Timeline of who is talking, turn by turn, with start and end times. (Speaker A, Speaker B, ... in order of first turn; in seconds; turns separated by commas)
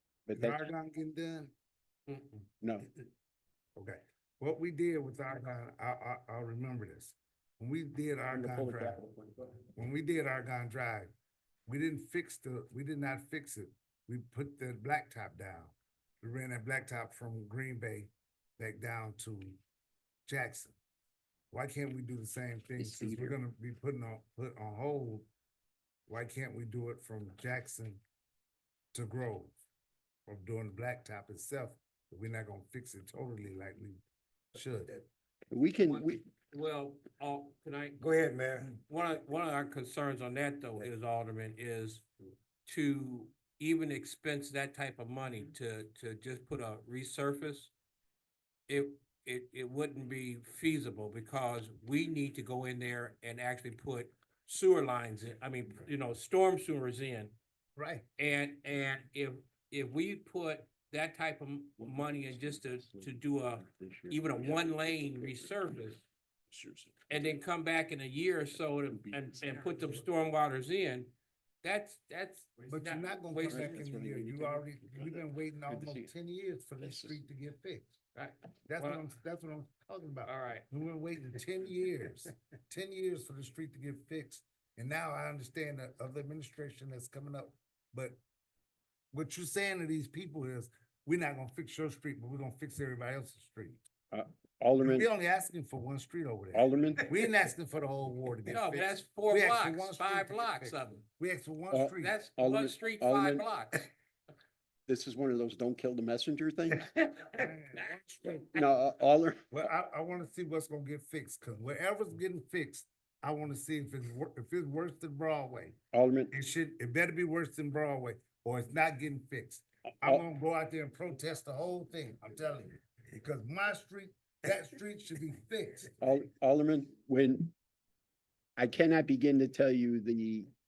Speaker A: 0.3-0.7, Speaker B: 0.3-1.5, Speaker C: 2.1-2.5, Speaker A: 2.6-2.9, Speaker B: 3.8-9.0, Speaker A: 8.3-9.6, Speaker B: 9.8-11.1, Speaker B: 11.7-19.6, Speaker B: 20.3-20.8, Speaker B: 21.5-25.3, Speaker A: 22.8-23.4, Speaker B: 26.1-28.0, Speaker B: 28.9-29.6, Speaker B: 30.3-34.0, Speaker B: 34.5-35.1, Speaker A: 35.5-36.2, Speaker C: 35.9-38.0, Speaker B: 38.0-38.8, Speaker C: 38.8-42.1, Speaker C: 42.6-47.7, Speaker C: 48.7-57.4, Speaker B: 57.8-58.0, Speaker C: 58.2-66.0, Speaker A: 61.8-65.5, Speaker A: 66.5-67.3, Speaker C: 67.1-73.8, Speaker A: 68.9-70.0, Speaker B: 72.7-78.0, Speaker A: 73.4-76.1, Speaker A: 76.8-77.2, Speaker C: 78.2-79.0, Speaker B: 78.7-88.2, Speaker C: 80.2-80.7, Speaker B: 89.1-93.8, Speaker A: 94.1-95.1, Speaker B: 94.8-102.2, Speaker A: 96.5-97.1, Speaker C: 98.5-101.1, Speaker A: 101.7-103.5, Speaker C: 102.0-103.8, Speaker A: 104.9-106.9, Speaker C: 107.0-107.5, Speaker B: 107.4-108.5, Speaker A: 108.5-109.5, Speaker B: 109.5-115.8, Speaker A: 115.9-116.3, Speaker B: 116.3-126.0, Speaker A: 126.0-127.5, Speaker A: 128.6-130.5